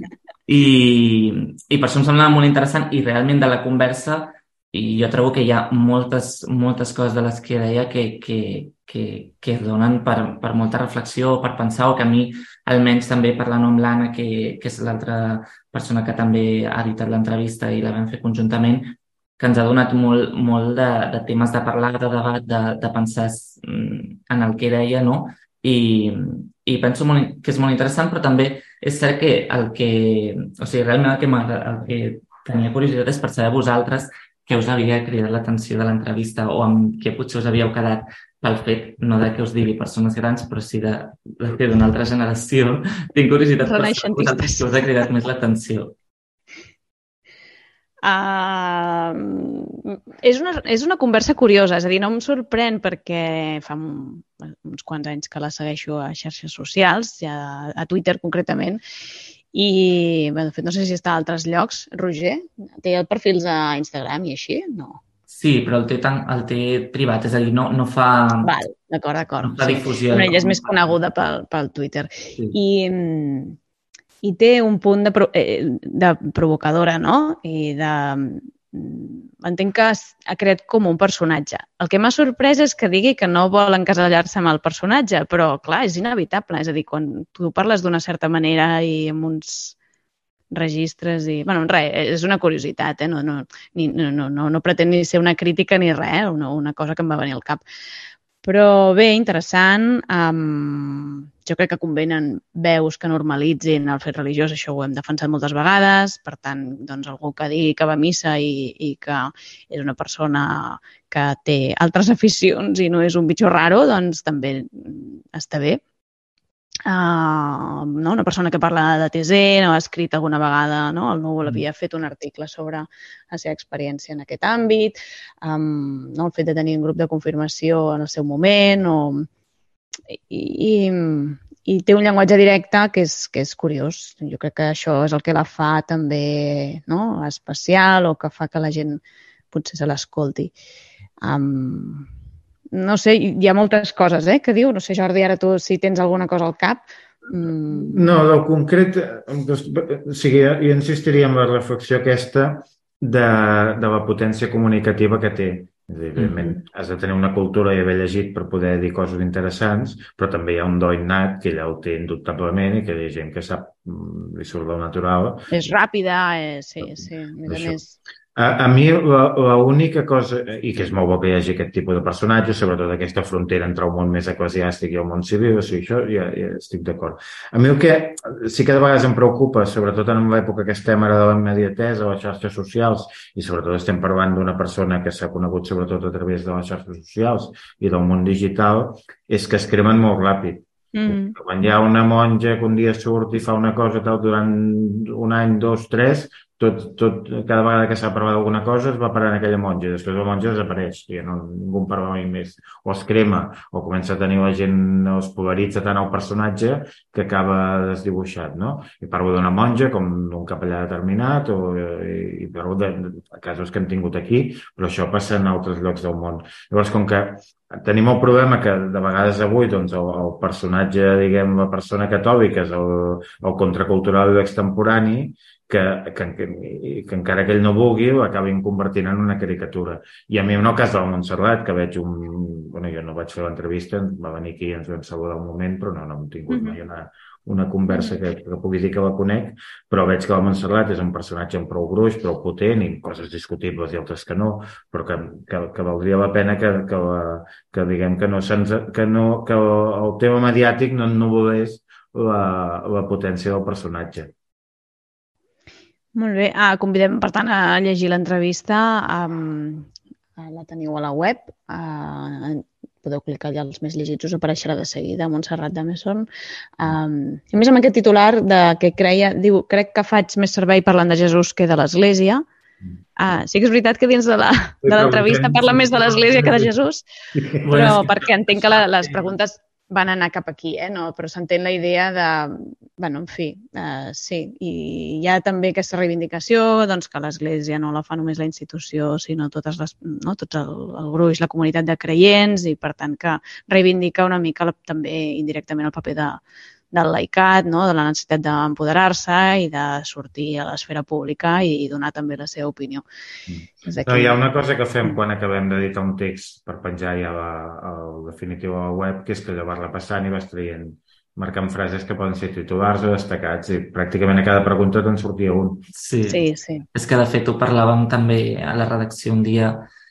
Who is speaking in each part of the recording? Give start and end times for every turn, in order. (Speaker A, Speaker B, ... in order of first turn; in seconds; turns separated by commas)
Speaker A: 0.5-45.9, Speaker B: 43.6-44.6, Speaker B: 48.0-58.8, Speaker B: 59.5-65.0, Speaker A: 65.3-68.5, Speaker B: 68.4-73.6, Speaker A: 69.4-70.9, Speaker B: 74.2-89.8, Speaker B: 90.5-97.6, Speaker B: 98.4-115.8, Speaker B: 116.8-129.3, Speaker B: 130.1-140.5, Speaker B: 141.2-142.1, Speaker B: 142.7-148.1, Speaker C: 147.7-165.5, Speaker B: 165.5-167.9, Speaker C: 167.5-167.8, Speaker C: 168.3-254.3, Speaker B: 190.9-191.3, Speaker B: 236.5-236.8, Speaker B: 237.9-238.2, Speaker B: 256.1-266.3, Speaker B: 266.8-272.4, Speaker B: 273.2-277.0, Speaker C: 274.8-276.7, Speaker A: 277.6-279.0, Speaker B: 277.7-303.0, Speaker C: 303.5-315.9, Speaker B: 303.8-304.4, Speaker A: 315.9-319.9, Speaker B: 316.3-316.8